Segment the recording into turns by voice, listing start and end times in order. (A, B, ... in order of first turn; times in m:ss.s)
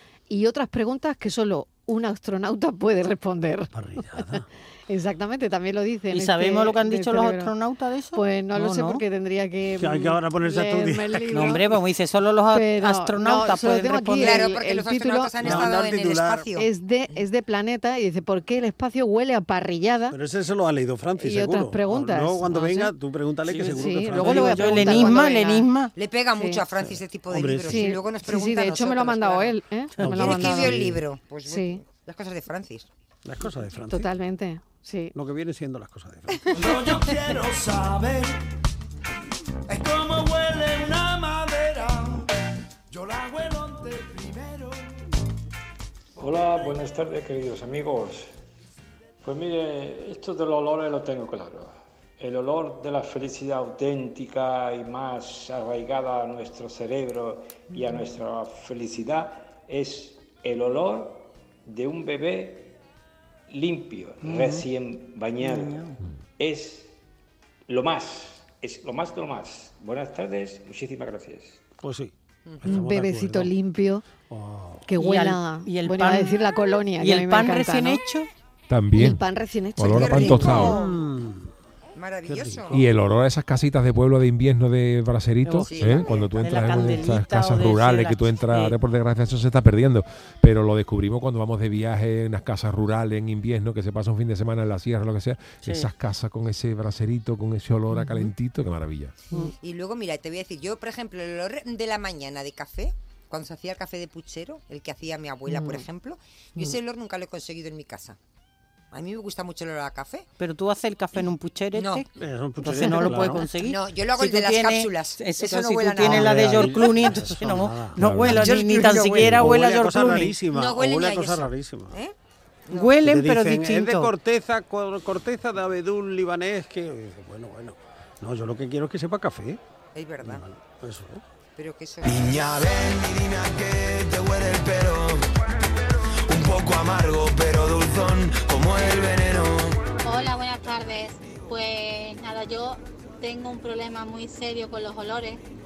0:00.3-0:07.5 A
0:03.7-0:04.4 B
0:06.1-0:09.0 C
0:08.1-0:11.7 A
0:09.8-0:11.7 B
0:11.3-0:14.4 C
0:12.5-0:15.6 A
0:14.2-0:16.7 D
0:15.4-0:16.5 B
0:16.6-0:20.2 A
0:20.1-0:25.2 B
0:21.2-0:22.9 A
0:23.4-0:25.9 C
0:23.6-0:25.7 A
0:25.9-0:32.9 D
0:26.4-0:26.6 A
0:26.8-0:27.9 B
0:27.6-0:30.8 A
0:30.0-0:31.0 B
0:31.4-0:31.8 A
0:33.2-0:34.1 B
0:33.9-0:35.1 A
0:35.1-0:36.4 B
0:36.5-0:38.4 E
0:39.7-0:42.3 E
0:42.9-0:45.0 E
0:46.2-0:48.3 F
0:49.2-1:02.7 F
1:03.5-1:05.8 F
1:04.2-1:04.5 C
1:05.5-1:06.0 C
1:06.4-1:06.9 F
1:07.7-1:11.6 F
1:11.8-1:13.5 B
1:12.6-1:14.0 A
1:14.3-1:14.8 B
1:14.8-1:18.0 A
1:15.0-1:16.4 C
1:17.0-1:18.3 C
1:18.7-1:19.2 G
1:18.9-1:20.6 A
1:19.8-1:20.8 G
1:19.9-1:21.0 D
1:20.6-1:21.5 B
1:22.0-1:22.8 D
1:22.2-1:22.8 B
1:22.7-1:39.1 G
1:25.4-1:28.8 C
1:25.7-1:26.2 D
1:35.6-1:35.9 C
1:37.9-1:38.3 A
1:39.5-1:48.2 D
1:45.5-1:45.8 A
1:48.9-1:50.3 D
1:50.4-1:52.0 C
1:51.7-1:52.0 D
1:52.1-1:53.5 B
1:52.6-2:00.4 C
1:52.9-1:57.2 D
1:56.0-2:02.0 B
1:58.0-1:59.4 G
1:58.4-1:59.0 D
2:00.5-2:02.1 D
2:02.7-2:03.0 D
2:02.7-2:04.1 C
2:03.0-2:09.6 B
2:09.9-2:10.4 D
2:10.2-2:11.2 B
2:11.6-2:12.3 D
2:12.0-2:15.3 E
2:16.3-2:19.9 E
2:20.0-2:25.4 H